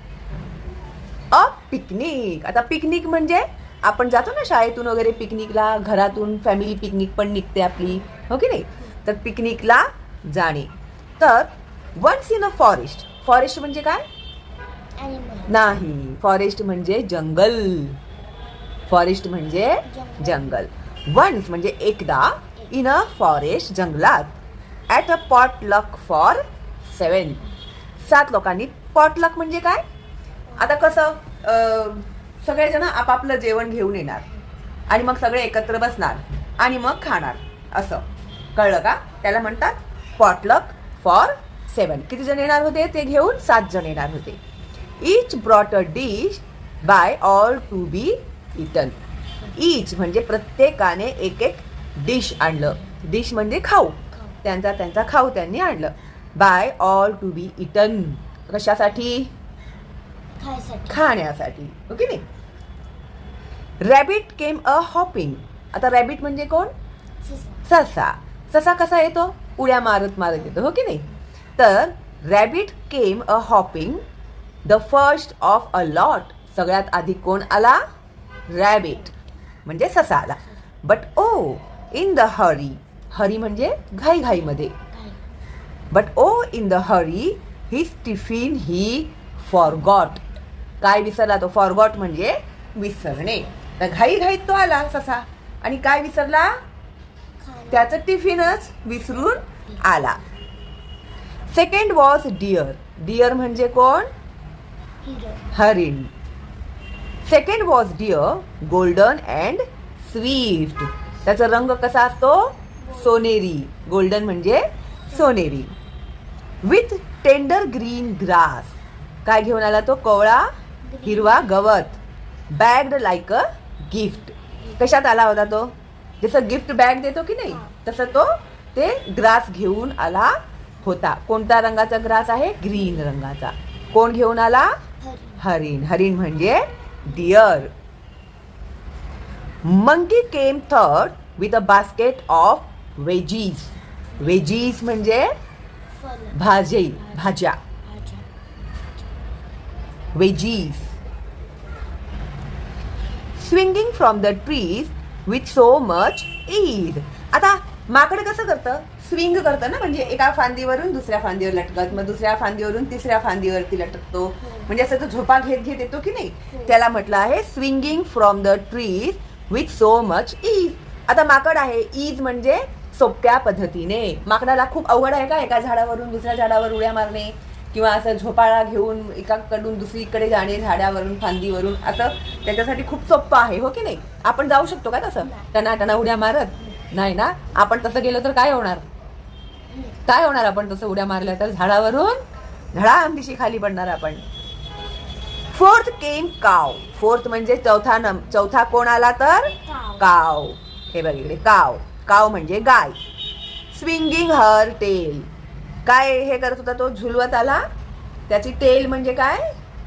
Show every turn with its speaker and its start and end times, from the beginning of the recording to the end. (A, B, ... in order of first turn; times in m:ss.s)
0:01.3-0:14.0 A
0:15.0-0:15.8 B
0:15.5-0:18.0 A
0:18.9-0:24.4 A
0:19.8-0:20.6 B
0:24.9-0:27.4 A
0:28.0-0:29.8 A
0:30.5-0:30.9 B
0:30.6-0:34.2 A
0:34.9-0:44.4 A
0:45.0-0:49.0 A
0:49.5-0:59.3 A
1:00.4-1:01.0 B
1:00.9-1:02.2 A
1:03.8-1:06.7 A
1:07.2-1:07.6 B
1:07.6-1:14.0 A
1:14.6-1:17.8 A
1:18.5-1:19.1 A
1:19.6-1:24.8 A
1:24.9-1:25.2 B
1:25.9-1:30.2 A
1:30.8-1:36.5 A
1:37.4-1:38.0 B
1:37.7-1:40.2 A
1:41.5-1:44.1 A
1:45.0-1:45.5 B
1:45.5-1:46.1 A
1:47.2-1:55.7 A
1:52.8-1:53.3 B
1:56.6-1:58.7 A
1:59.2-2:00.5 A
2:00.8-2:01.6 B
2:01.0-2:02.0 A
2:02.5-2:14.8 A
2:07.5-2:07.7 B
2:15.0-2:15.4 B
2:15.4-2:17.7 A
2:19.6-2:25.3 A
2:24.1-2:24.6 B
2:25.9-2:28.3 B
2:26.3-2:27.6 A
2:30.1-2:30.9 A
2:33.4-3:08.8 A
2:44.4-2:44.7 B
2:46.5-2:46.8 B
3:09.7-3:10.0 B
3:10.0-3:12.2 A
3:12.7-3:14.2 A
3:15.5-3:23.0 A
3:19.6-3:20.1 B
3:23.7-3:25.3 A
3:25.8-3:27.6 A
3:28.3-3:29.5 A